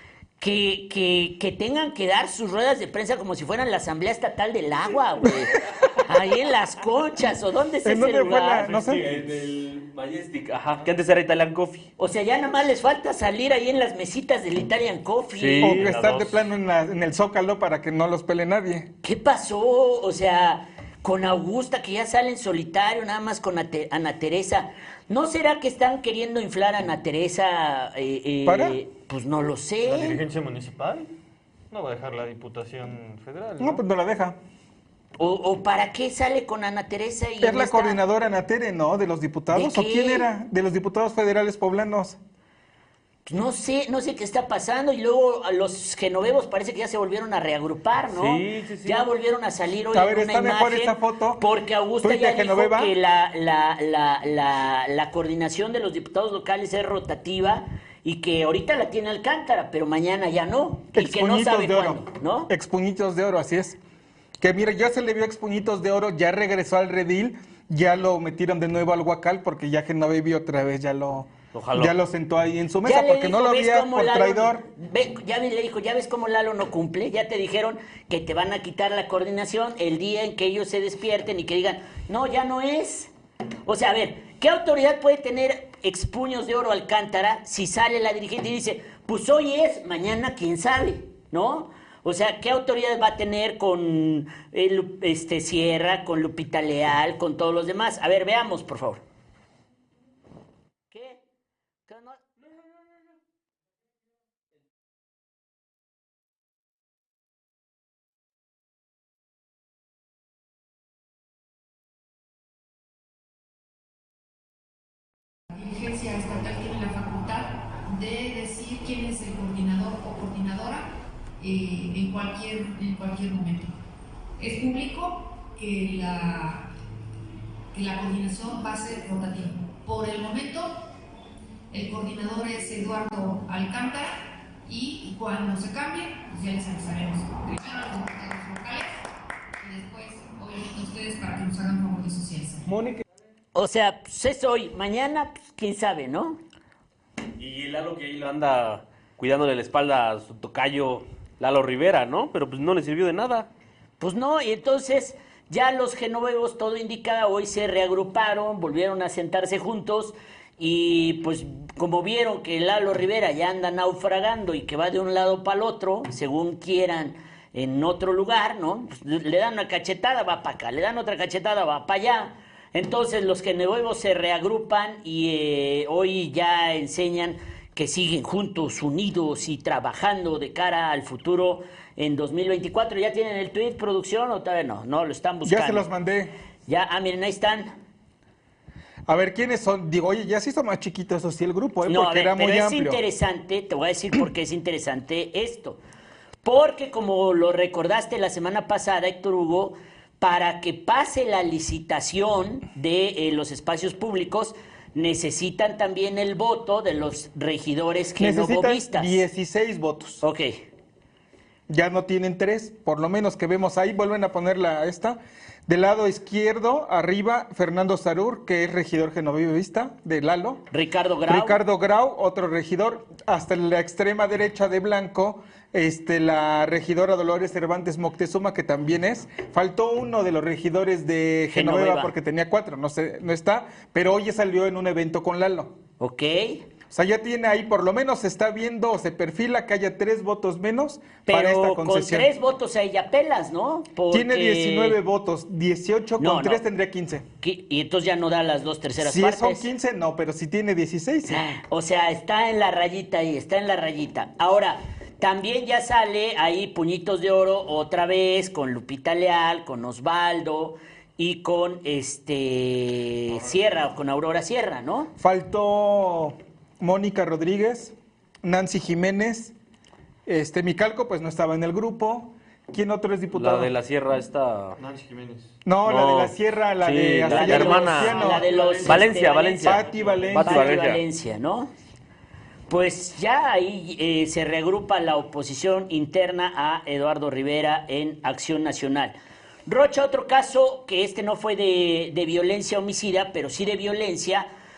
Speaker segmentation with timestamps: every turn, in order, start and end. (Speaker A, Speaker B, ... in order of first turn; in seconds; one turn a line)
Speaker A: 0.4-8.9
Speaker B: 7.8-9.1
Speaker C: 8.9-11.9
Speaker A: 12.0-15.8
Speaker C: 15.4-16.3
Speaker B: 15.6-18.9
Speaker D: 15.8-16.2
Speaker A: 19.0-30.2
Speaker B: 28.4-28.8
Speaker D: 29.8-31.1
Speaker D: 31.7-33.8
Speaker B: 33.6-34.4
Speaker A: 35.2-38.0
Speaker B: 37.4-42.2
Speaker A: 39.5-40.3
Speaker A: 43.3-62.5
Speaker C: 48.1-49.1
Speaker B: 49.9-51.4
Speaker B: 52.0-52.9
Speaker B: 61.0-63.8
Speaker B: 64.4-74.7
Speaker C: 71.5-71.9
Speaker A: 72.8-83.1
Speaker A: 83.7-99.0
Speaker A: 100.9-101.2
Speaker A: 101.9-102.2
Speaker E: 115.5-123.7
Speaker E: 124.4-126.7
Speaker E: 127.7-130.8
Speaker E: 131.7-139.0
Speaker E: 139.6-142.7
Speaker B: 142.7-143.0
Speaker A: 143.6-146.4
Speaker C: 147.4-153.5
Speaker A: 154.0-185.9
Speaker B: 185.4-186.3
Speaker A: 186.7-187.7
Speaker B: 189.1-193.0
Speaker A: 191.8-195.8
Speaker A: 196.4-209.2
Speaker B: 208.2-210.2
Speaker A: 210.2-210.6
Speaker B: 211.7-220.6
Speaker A: 220.7-221.6
Speaker B: 221.3-235.8
Speaker A: 231.5-232.1
Speaker A: 236.0-236.6
Speaker B: 236.9-242.3
Speaker A: 241.3-245.0
Speaker B: 244.1-247.2
Speaker A: 246.2-246.6
Speaker A: 247.4-249.7
Speaker B: 249.0-251.4
Speaker A: 251.3-265.1
Speaker B: 265.2-269.5
Speaker B: 270.3-273.7
Speaker C: 273.3-274.8
Speaker D: 274.8-275.5
Speaker B: 275.6-278.5
Speaker C: 275.9-278.2
Speaker A: 277.3-279.8
Speaker D: 277.6-280.4
Speaker C: 278.9-281.0
Speaker B: 279.6-280.7
Speaker A: 280.4-281.7
Speaker A: 282.7-294.5